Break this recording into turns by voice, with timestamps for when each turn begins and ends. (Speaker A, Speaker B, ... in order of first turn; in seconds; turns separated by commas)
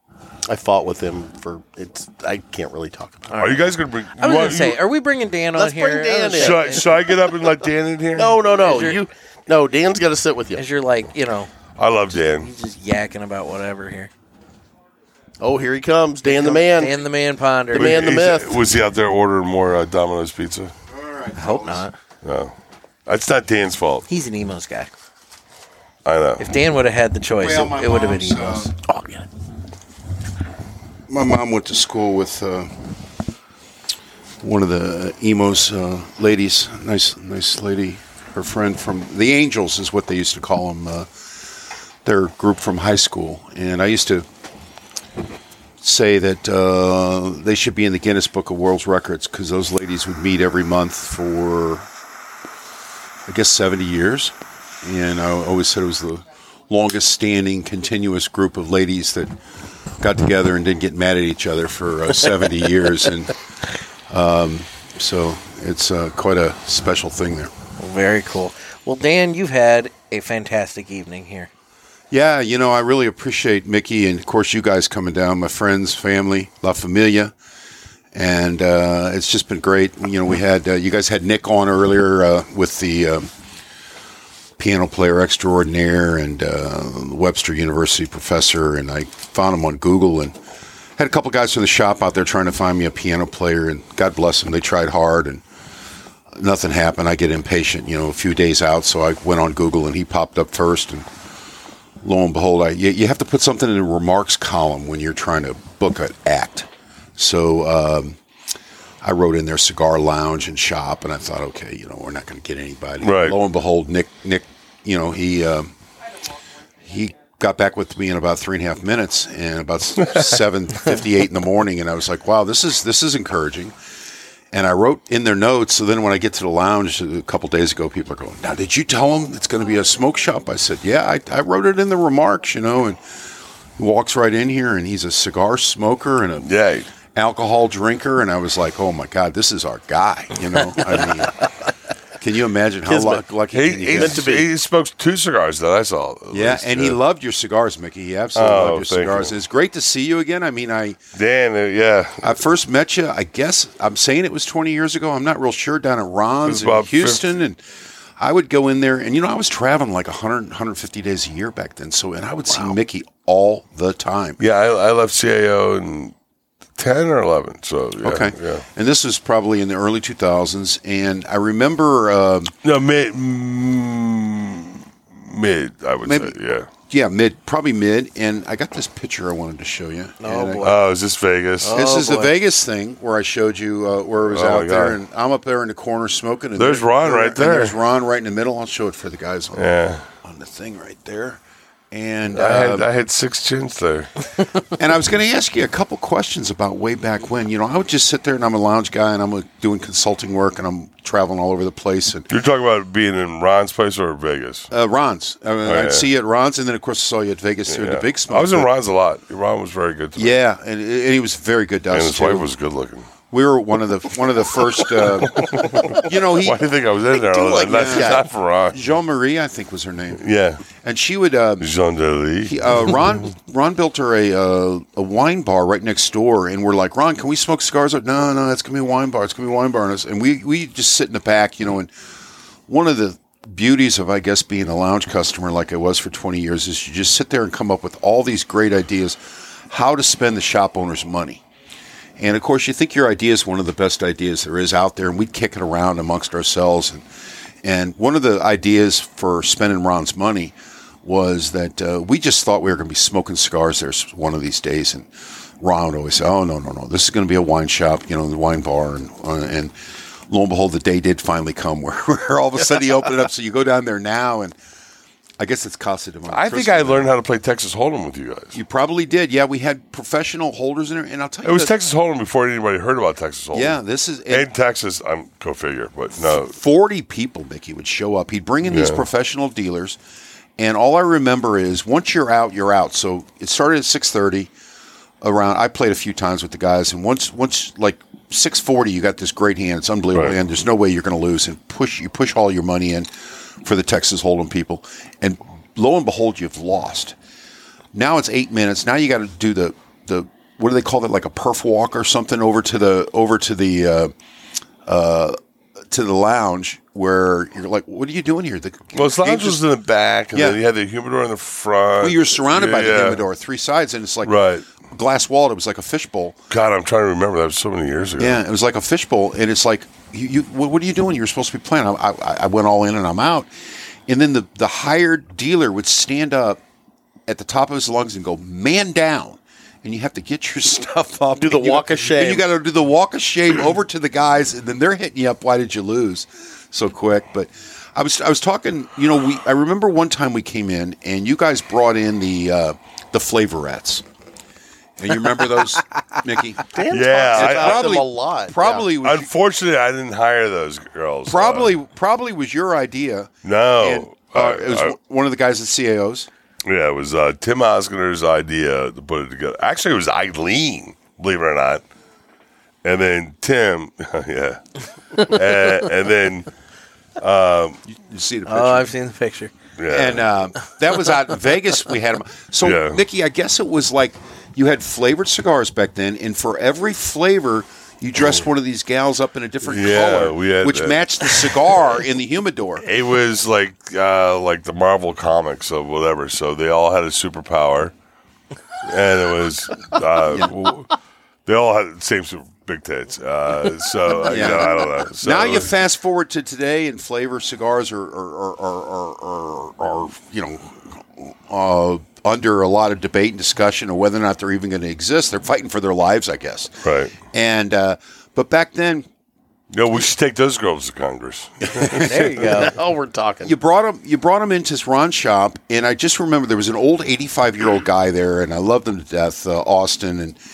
Speaker A: 0.5-3.4, Speaker B: 3.3-6.9, Speaker C: 3.4-4.8, Speaker A: 5.6-7.0, Speaker C: 6.4-8.4, Speaker A: 8.2-10.6, Speaker B: 8.5-9.0, Speaker B: 10.6-11.5, Speaker C: 11.8-12.5, Speaker B: 12.2-14.1, Speaker A: 15.4-17.0, Speaker B: 16.2-18.0, Speaker A: 17.7-18.6, Speaker C: 17.7-20.7, Speaker D: 20.9-21.9, Speaker B: 21.4-21.9, Speaker C: 22.2-22.6, Speaker C: 23.1-24.1, Speaker B: 24.1-24.9, Speaker C: 26.1-26.5, Speaker B: 26.4-28.7, Speaker D: 27.4-28.7, Speaker A: 28.9-29.2, Speaker D: 31.1-32.8, Speaker D: 34.4-41.5, Speaker D: 42.0-44.3, Speaker D: 45.8-51.9, Speaker D: 53.3-59.3, Speaker D: 60.0-63.3, Speaker D: 64.1-67.5, Speaker B: 67.8-71.5, Speaker D: 72.1-77.3, Speaker D: 78.1-83.3, Speaker D: 84.6-90.3, Speaker D: 91.0-95.4, Speaker D: 96.3-101.1, Speaker D: 102.0-108.2, Speaker D: 109.0-115.7, Speaker C: 113.0-113.4, Speaker D: 116.8-123.7, Speaker D: 124.5-133.0, Speaker D: 133.8-136.5, Speaker C: 136.4-136.9, Speaker D: 137.1-141.4, Speaker D: 142.2-144.3, Speaker C: 143.5-147.0, Speaker A: 144.0-144.5, Speaker D: 146.3-151.0, Speaker C: 148.3-149.3, Speaker C: 151.2-152.4, Speaker D: 152.2-157.6, Speaker C: 156.4-157.3, Speaker D: 158.2-164.4, Speaker C: 164.4-166.1, Speaker C: 166.8-168.7, Speaker D: 168.0-172.5, Speaker C: 172.6-176.7, Speaker D: 176.0-176.4, Speaker D: 176.9-180.7, Speaker B: 180.2-180.8, Speaker C: 180.6-181.8, Speaker B: 181.6-182.3, Speaker D: 181.7-189.7, Speaker C: 184.3-185.0, Speaker C: 186.6-187.8, Speaker C: 189.5-190.1, Speaker D: 190.2-191.4, Speaker D: 191.9-192.9, Speaker C: 192.3-194.1, Speaker D: 194.8-202.3, Speaker C: 202.3-204.7, Speaker D: 204.7-208.7, Speaker C: 205.7-206.1, Speaker C: 207.7-210.4, Speaker D: 210.2-212.5, Speaker C: 211.9-213.1, Speaker D: 213.3-216.7, Speaker C: 215.0-218.8, Speaker A: 217.3-218.2, Speaker D: 217.5-221.7, Speaker C: 220.2-220.6, Speaker C: 221.6-222.9, Speaker D: 222.5-231.9, Speaker D: 232.7-239.2, Speaker D: 239.7-241.4, Speaker D: 242.2-247.0, Speaker D: 247.6-255.1, Speaker D: 255.6-259.7, Speaker D: 260.3-264.5, Speaker D: 265.4-267.1, Speaker C: 266.3-268.6, Speaker D: 268.5-271.7, Speaker C: 271.4-276.6, Speaker D: 273.5-274.5, Speaker D: 276.2-280.0, Speaker C: 278.6-279.0, Speaker D: 280.6-284.5, Speaker D: 285.2-293.1, Speaker D: 293.6-297.2, Speaker D: 297.9-304.1, Speaker D: 304.9-305.4, Speaker D: 305.9-309.6, Speaker C: 308.9-313.2, Speaker D: 310.3-310.6, Speaker D: 312.0-316.4, Speaker C: 314.2-314.7, Speaker C: 316.5-318.4, Speaker D: 318.2-323.5, Speaker D: 324.1-326.6, Speaker D: 327.3-344.0, Speaker A: 331.4-332.5, Speaker D: 345.0-349.3, Speaker A: 346.7-348.9, Speaker C: 346.9-348.0, Speaker C: 349.0-351.8, Speaker D: 351.3-356.3, Speaker C: 353.4-355.0, Speaker C: 356.6-361.8, Speaker C: 362.8-364.6, Speaker C: 365.2-366.5, Speaker C: 367.2-367.8, Speaker D: 367.9-368.9, Speaker B: 368.5-369.5, Speaker C: 369.8-370.3, Speaker D: 369.9-382.9, Speaker C: 372.6-373.0, Speaker C: 379.6-381.6, Speaker C: 382.8-387.9, Speaker C: 388.8-390.9, Speaker C: 391.5-395.7, Speaker D: 394.2-409.1, Speaker C: 406.8-407.2, Speaker C: 409.7-412.4, Speaker D: 411.7-412.4, Speaker B: 411.9-412.7, Speaker A: 412.4-413.5, Speaker D: 413.4-420.4